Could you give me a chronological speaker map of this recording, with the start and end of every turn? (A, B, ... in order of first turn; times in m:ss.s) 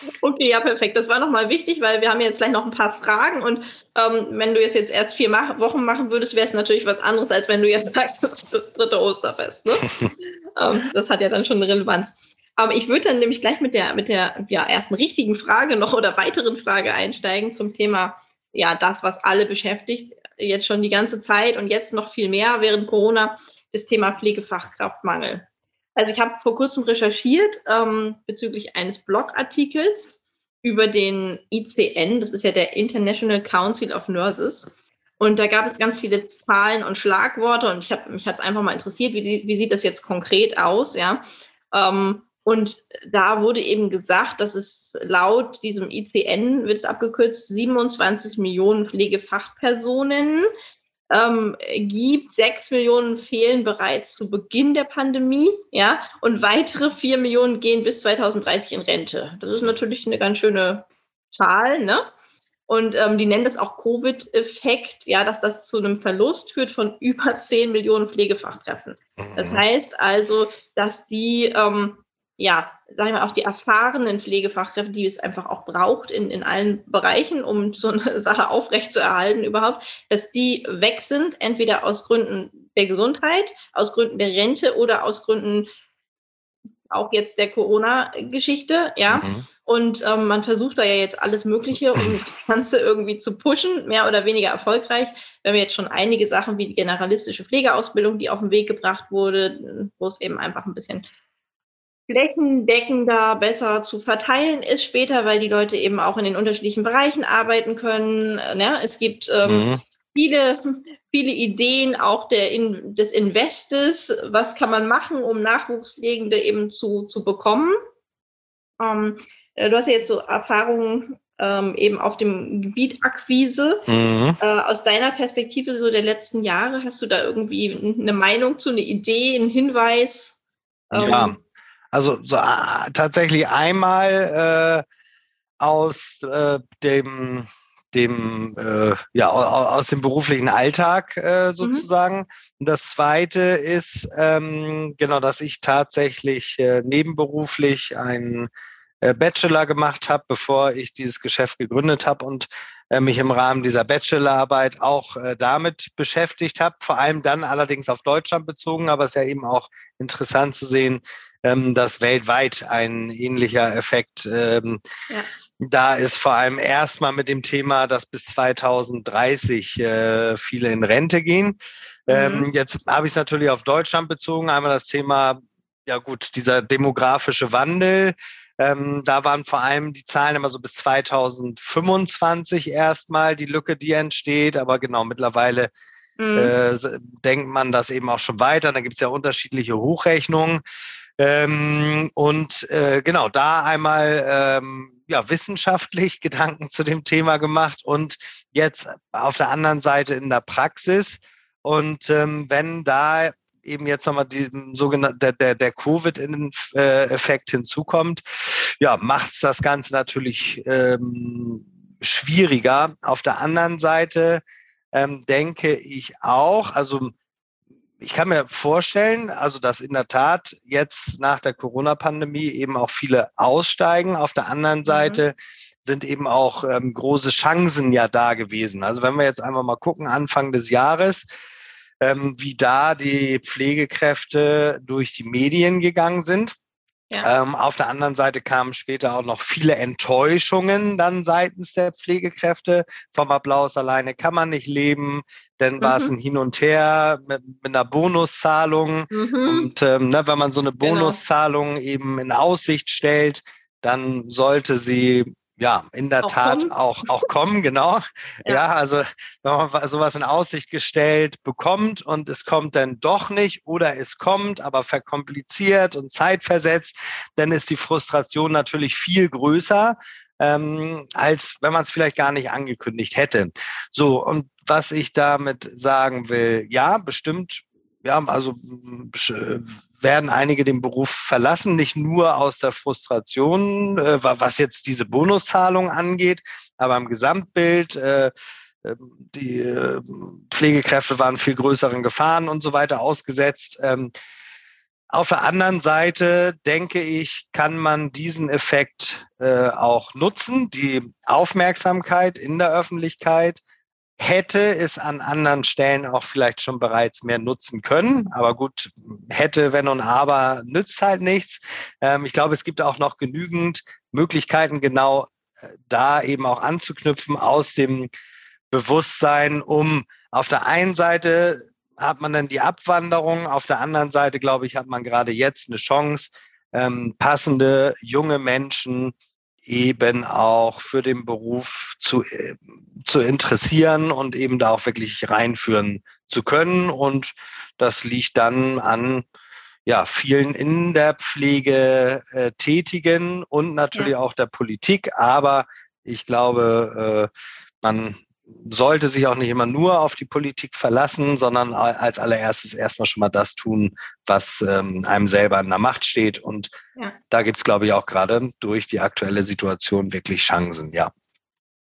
0:00.2-0:09.9 A
0:10.6-0:50.5 A
0:51.1-1:02.1 A
1:02.7-1:25.7 A
1:09.2-1:09.6 B
1:26.9-1:41.1 A
1:29.1-1:29.4 B
1:42.1-1:57.8 A
1:49.4-1:49.8 B
1:58.8-2:03.8 A
2:03.9-2:04.4 B
2:04.4-2:10.4 A
2:10.9-2:11.4 A
2:10.9-2:11.4 B
2:11.9-2:14.8 B
2:15.6-2:28.5 B
2:29.0-2:44.8 B
2:45.6-3:05.7 B
2:52.1-2:52.5 A
3:06.2-3:06.5 A
3:06.4-3:10.6 B
3:11.2-3:34.4 B
3:34.9-3:37.1 B
3:38.0-3:51.3 B
3:44.9-3:45.2 A
3:52.0-3:56.5 B
3:57.2-4:48.3 B
4:05.8-4:06.1 A
4:09.1-4:09.7 A
4:10.8-4:11.2 A
4:16.2-4:17.2 A
4:48.8-4:54.1 B
4:55.1-5:03.6 B
5:04.2-5:15.3 B
5:15.8-5:18.1 B
5:18.7-5:29.1 B
5:29.7-5:39.3 B
5:39.9-5:47.3 B
5:47.8-5:56.7 B
5:57.3-6:01.1 B